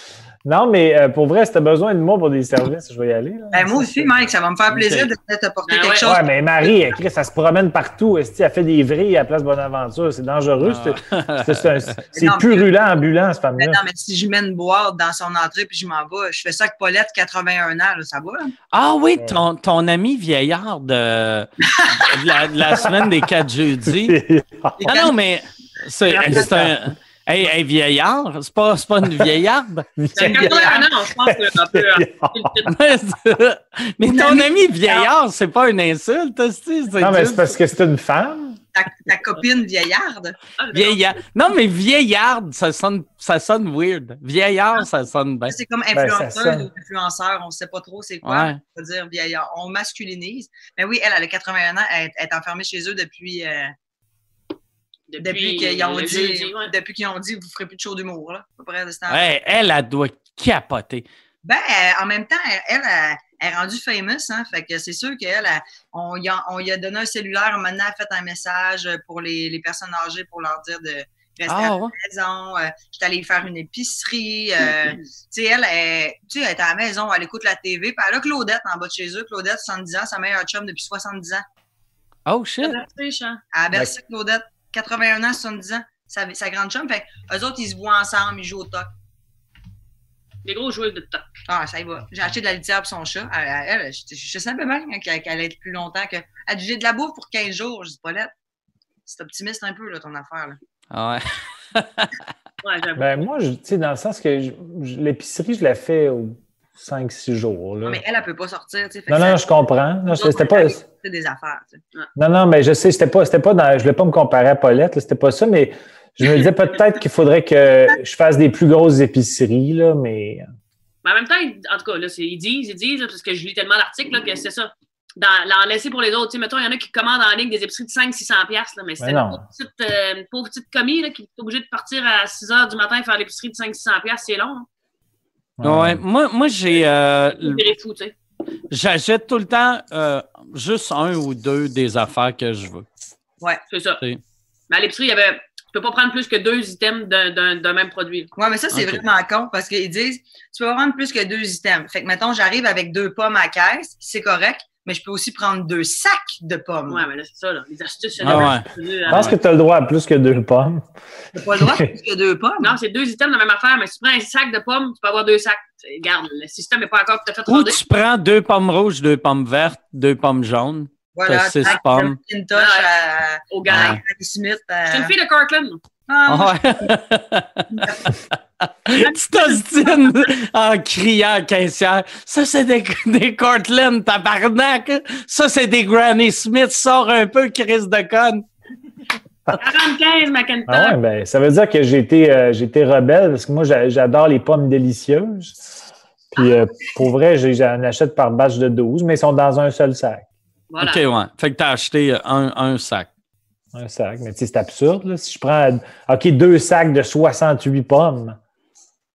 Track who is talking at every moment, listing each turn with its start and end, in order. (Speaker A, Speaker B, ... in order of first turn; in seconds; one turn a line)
Speaker A: 0.5-4.2
Speaker B: 3.5-6.3
Speaker C: 4.7-5.1
Speaker D: 5.7-6.1
Speaker A: 6.0-13.8
Speaker C: 10.6-11.9
Speaker B: 12.1-12.7
Speaker B: 13.6-18.5
Speaker C: 18.7-24.2
Speaker B: 21.7-22.1
Speaker A: 22.8-23.1
Speaker A: 23.9-25.0
Speaker B: 24.8-25.1
Speaker C: 24.8-29.9
Speaker B: 26.1-26.7
Speaker A: 26.3-26.7
Speaker A: 30.0-32.5
Speaker D: 30.2-32.8
Speaker B: 30.2-30.9
Speaker C: 32.7-37.6
Speaker B: 34.0-35.1
Speaker A: 37.0-38.6
Speaker B: 38.8-40.4
Speaker D: 40.6-41.1
Speaker C: 40.7-45.5
Speaker B: 45.5-53.7
Speaker A: 45.9-46.7
Speaker C: 48.2-48.6
Speaker D: 55.1-56.7
Speaker B: 55.2-59.3
Speaker C: 59.1-61.0
Speaker B: 61.4-81.4
Speaker C: 71.5-71.9
Speaker C: 82.3-82.8
Speaker D: 82.6-83.4
Speaker B: 83.5-88.9
Speaker D: 90.5-91.3
Speaker B: 91.5-98.3
Speaker B: 99.1-100.6
Speaker C: 100.9-102.1
Speaker D: 102.6-103.2
Speaker A: 103.0-108.0
Speaker B: 107.8-109.5
Speaker A: 109.1-110.8
Speaker B: 110.1-111.8
Speaker A: 112.2-120.5
Speaker D: 121.0-134.7
Speaker A: 129.0-129.4
Speaker A: 135.6-136.0
Speaker C: 135.6-137.7
Speaker D: 137.4-138.1
Speaker C: 138.7-142.9
Speaker D: 143.7-144.0
Speaker D: 144.7-148.3
Speaker B: 148.4-157.0
Speaker C: 148.7-149.0
Speaker D: 156.9-159.3
Speaker C: 158.2-159.3
Speaker A: 158.3-158.6
Speaker A: 159.1-160.8
Speaker B: 161.3-162.8
Speaker A: 161.4-161.9
Speaker D: 162.6-167.8
Speaker C: 167.5-172.2
Speaker B: 171.1-175.1
Speaker D: 172.6-172.9
Speaker D: 173.5-174.0
Speaker C: 173.7-174.0
Speaker D: 174.9-175.8
Speaker B: 176.1-176.9
Speaker C: 176.3-188.4
Speaker B: 177.8-178.1
Speaker D: 179.0-180.0
Speaker D: 189.6-191.0
Speaker A: 190.7-195.6
Speaker A: 196.3-200.3
Speaker D: 200.7-201.0
Speaker C: 200.8-203.1
Speaker A: 203.7-208.4